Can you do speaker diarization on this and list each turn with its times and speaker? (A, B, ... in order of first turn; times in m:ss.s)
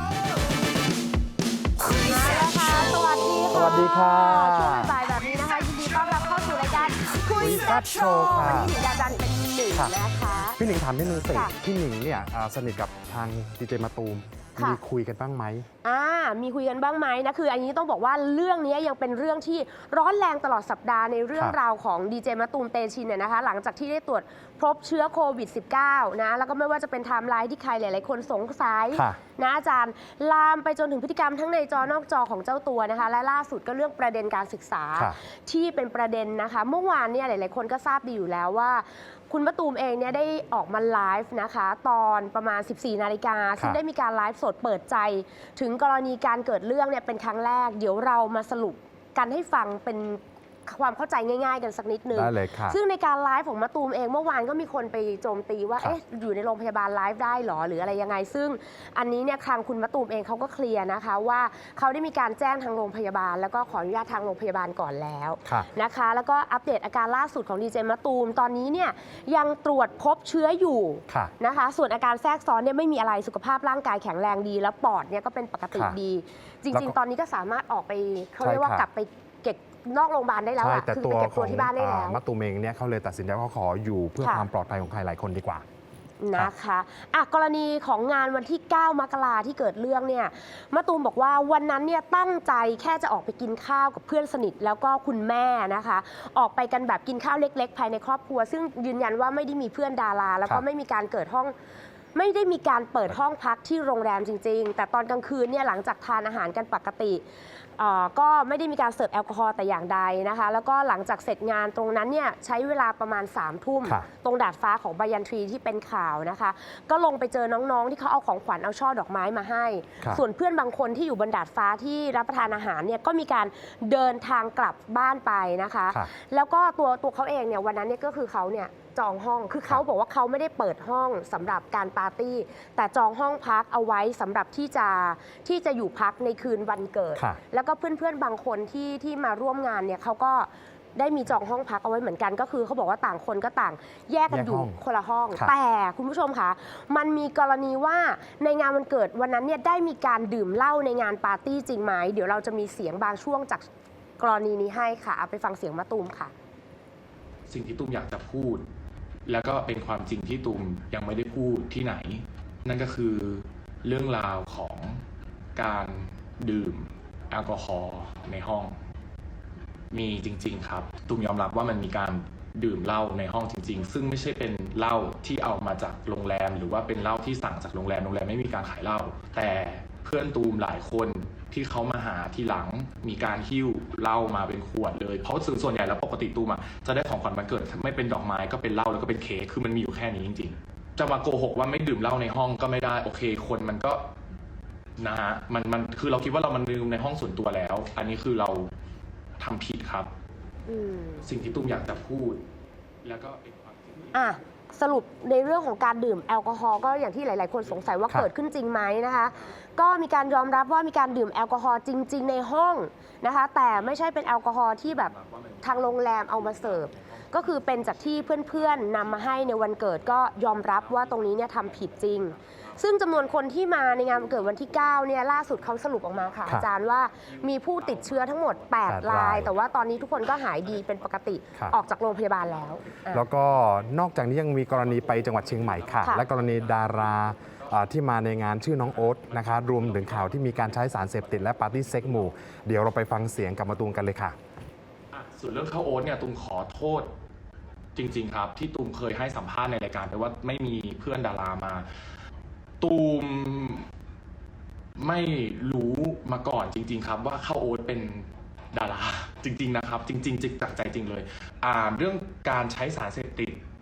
0:01.8-0:10.6 A
0:03.5-0:05.0 B
0:07.3-0:08.8 B
0:10.6-0:15.7 B
0:15.8-1:22.2 A
0:28.9-0:29.2 B
0:52.1-0:52.8 B
1:18.4-1:18.9 B
1:20.6-1:25.6 B
1:24.2-1:24.5 A
1:26.2-1:41.5 A
1:42.1-1:47.2 A
1:47.8-2:33.6 A
2:24.3-2:24.8 B
2:34.2-2:36.3 A
2:37.5-2:38.7 C
2:39.3-2:45.0 C
2:45.6-2:48.8 C
2:49.9-3:14.1 C
3:15.0-3:18.7 C
3:19.4-3:20.1 C
3:20.7-3:21.2 A
3:21.2-3:22.4 C
3:23.0-3:24.3 C
3:24.1-3:53.2 A
3:27.7-3:28.2 C
3:29.3-3:29.6 C
3:34.8-3:39.5 C
3:40.0-3:51.8 C
3:48.9-3:49.5 B
3:52.4-3:54.0 C
3:53.1-4:04.4 B
3:54.7-3:57.8 C
3:58.9-4:02.4 C
4:05.1-4:07.1 C
4:08.0-4:11.9 C
4:12.8-4:13.9 C
4:15.0-4:23.6 C